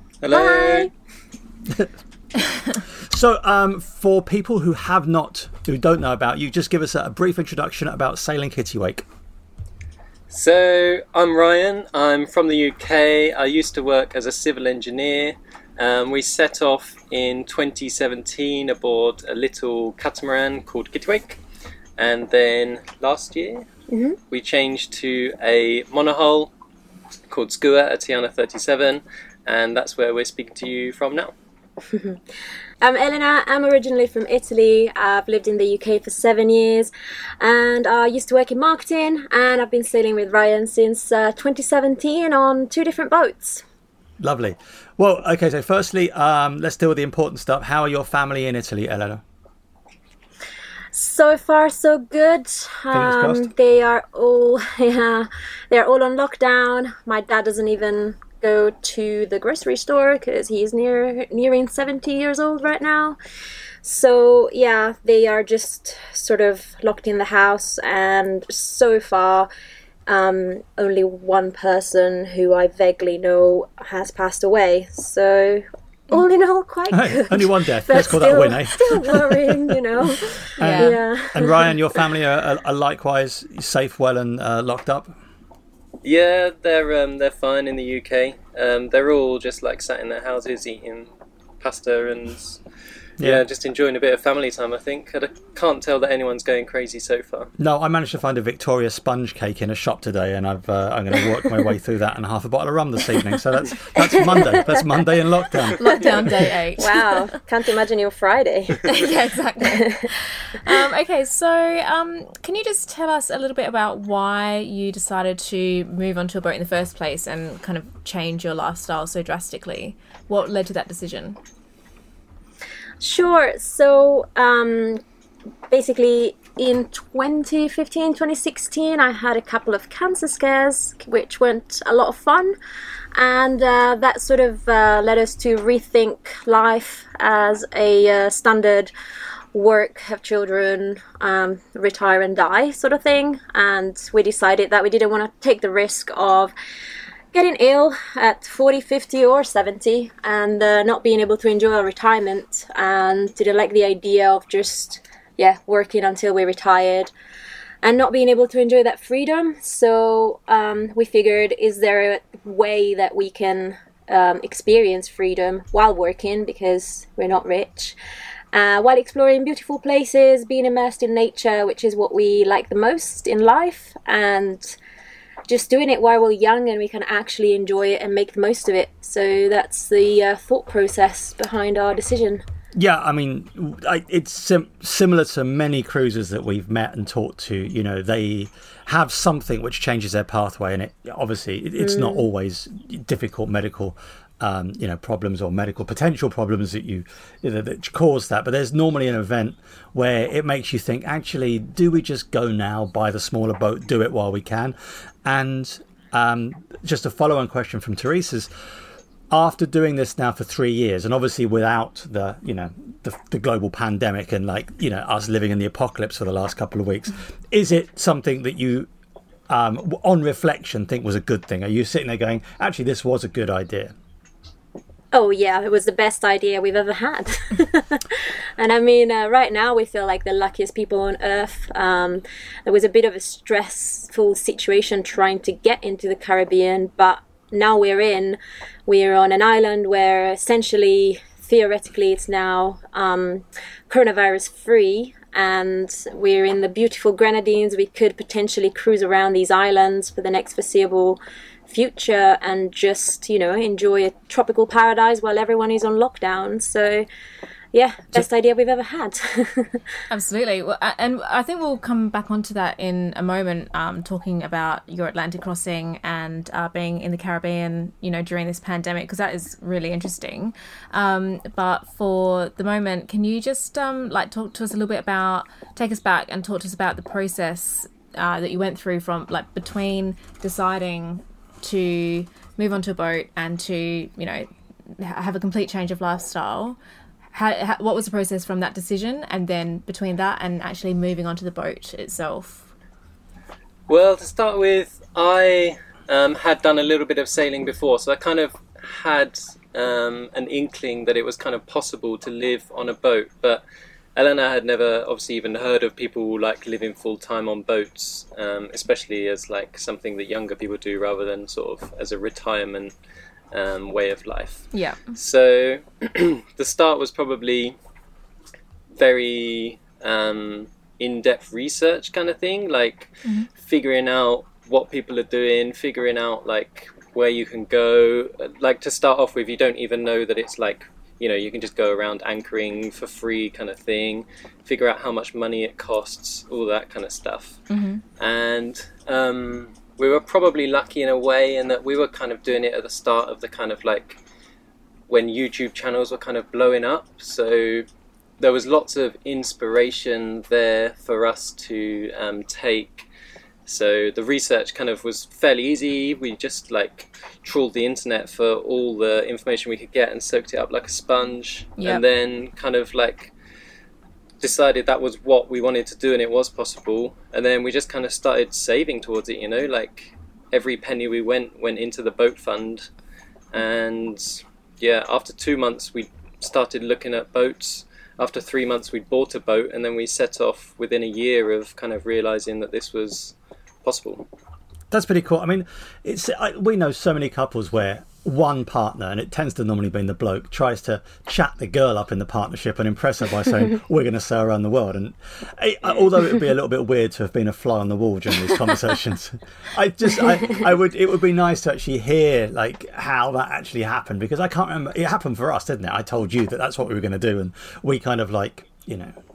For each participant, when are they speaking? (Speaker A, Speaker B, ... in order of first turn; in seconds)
Speaker A: 0.2-0.9, 10.3-21.4, 22.0-23.7, 24.3-26.5, 27.3-31.3, 86.0-91.1, 91.6-92.6, 93.2-97.5, 293.9-303.6, 304.2-312.9, 313.5-317.8, 318.9-337.7, 338.2-344.2, 345.1-347.9, 348.4-353.1, 353.7-363.3, 364.4-372.9, 373.5-384.3
Speaker B: 0.3-0.9, 23.9-24.2, 31.9-32.2, 32.8-43.6, 50.9-63.2, 63.8-69.5, 70.1-81.7, 104.2-104.5, 106.8-108.9, 109.7-110.0, 123.0-125.0, 125.7-132.6, 133.1-138.9, 139.5-146.5, 147.3-157.1, 157.8-168.0, 168.5-174.8, 175.5-182.4, 191.8-192.2, 225.1-257.1, 257.7-260.0
Speaker C: 3.1-9.1, 44.2-49.2, 52.9-53.5, 76.9-79.8, 80.4-85.1, 97.6-106.5, 182.7-208.5, 209.3-218.9, 219.5-223.9, 384.9-409.2
Speaker D: 80.6-81.0, 105.8-107.3, 108.8-121.4, 260.1-286.8, 287.3-292.6, 314.7-315.2, 337.7-338.0